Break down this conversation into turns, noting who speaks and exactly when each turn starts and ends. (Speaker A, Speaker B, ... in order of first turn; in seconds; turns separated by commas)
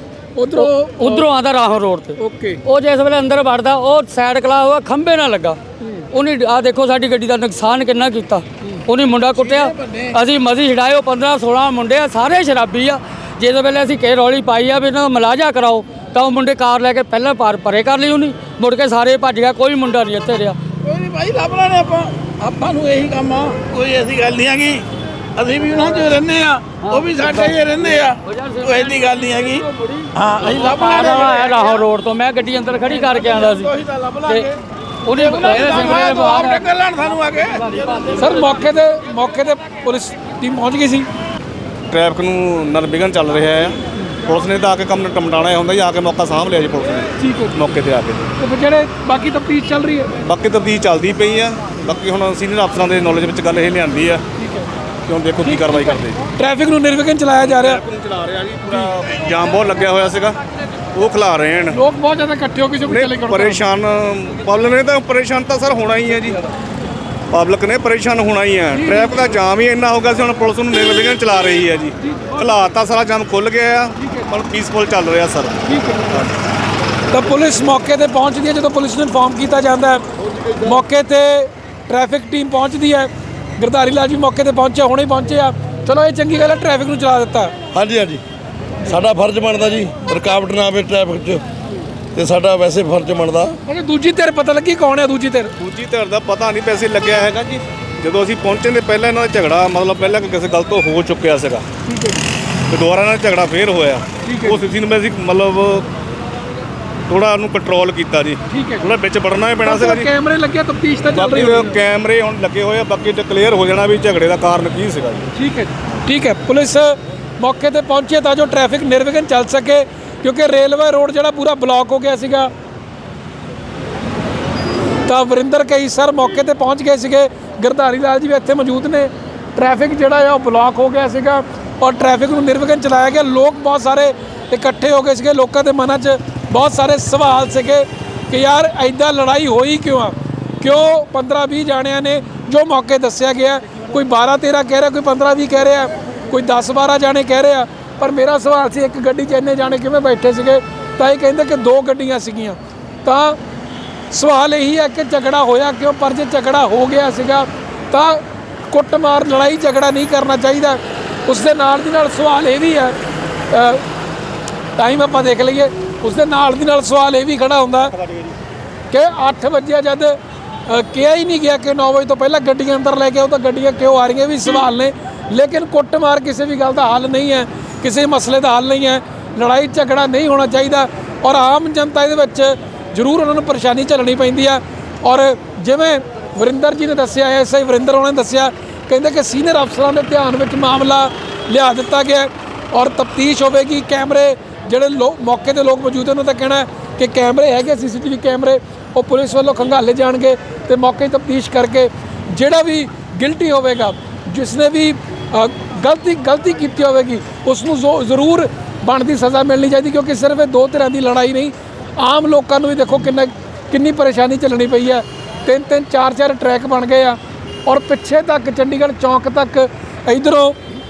Speaker A: 0.3-1.3, Speaker B: 0.6-5.6, Speaker A: 2.2-2.6, Speaker A: 5.8-6.1, Speaker B: 6.1-20.6, Speaker C: 9.3-10.2, Speaker C: 20.8-24.8, Speaker C: 25.4-31.8, Speaker B: 26.8-33.7, Speaker C: 32.8-34.5, Speaker B: 34.2-34.5, Speaker B: 35.0-36.6, Speaker C: 35.1-38.1, Speaker B: 37.7-38.2, Speaker A: 38.2-41.1, Speaker D: 41.9-48.3, Speaker A: 47.2-47.6, Speaker A: 48.4-50.1, Speaker D: 50.2-54.2, Speaker A: 54.4-54.7, Speaker D: 55.1-56.2, Speaker A: 55.4-57.8, Speaker D: 57.4-60.4, Speaker A: 58.6-58.9, Speaker D: 60.9-61.8, Speaker A: 61.7-63.6, Speaker D: 62.9-66.4, Speaker D: 67.3-75.6, Speaker A: 68.7-69.3, Speaker A: 75.7-76.2, Speaker A: 77.1-80.0, Speaker A: 80.6-87.5, Speaker E: 87.7-88.2, Speaker E: 88.8-91.4, Speaker E: 92.2-93.6, Speaker A: 93.7-95.5, Speaker D: 95.6-101.7, Speaker A: 101.9-102.2, Speaker D: 102.7-105.9, Speaker A: 104.2-104.6, Speaker D: 107.1-110.1, Speaker A: 108.5-108.9, Speaker A: 109.6-111.8, Speaker D: 111.2-115.3, Speaker A: 115.3-122.5, Speaker A: 125.1-153.4, Speaker A: 154.1-162.9, Speaker A: 163.5-163.8, Speaker A: 164.8-167.9, Speaker A: 168.9-170.2, Speaker A: 170.7-220.6